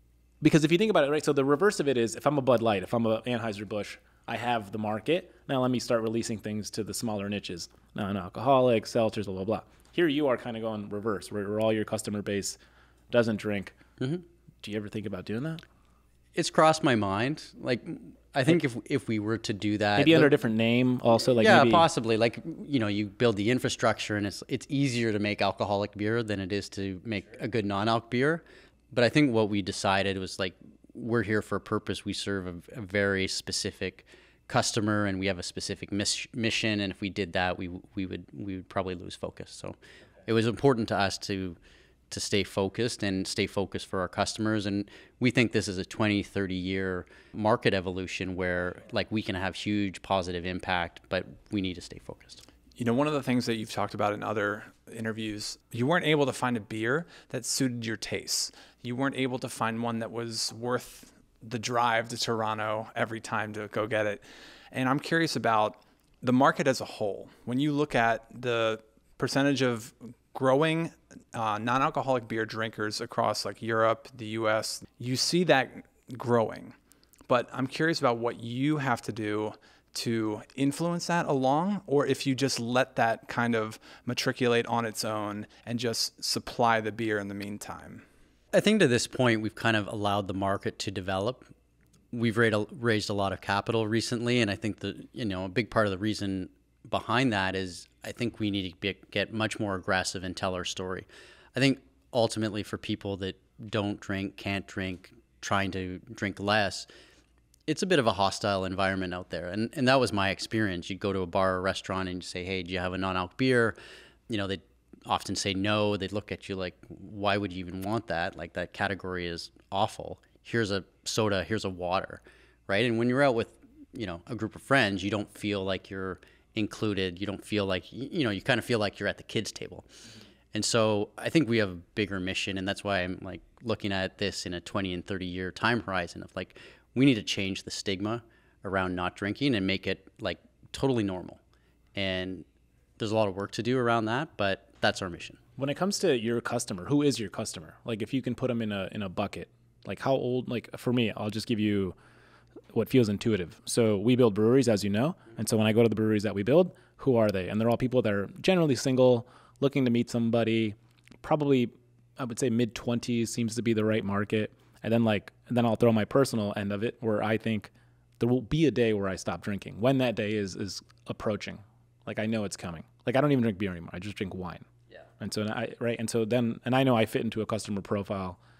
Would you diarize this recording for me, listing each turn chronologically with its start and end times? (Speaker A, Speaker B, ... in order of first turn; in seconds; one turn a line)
Speaker A: 0.4-12.6
Speaker A: 13.1-13.8
Speaker A: 14.6-15.6
Speaker B: 16.3-20.3
Speaker A: 19.9-21.9
Speaker B: 21.4-41.6
Speaker B: 42.1-52.4
Speaker C: 52.8-76.8
Speaker C: 77.3-88.0
Speaker B: 88.5-91.5
Speaker B: 92.1-106.9
Speaker B: 107.7-113.8
Speaker B: 114.3-129.8
Speaker B: 130.5-141.4
Speaker B: 141.9-142.4
Speaker B: 143.0-145.4
Speaker A: 145.6-151.9
Speaker A: 152.7-174.7
Speaker A: 175.2-178.4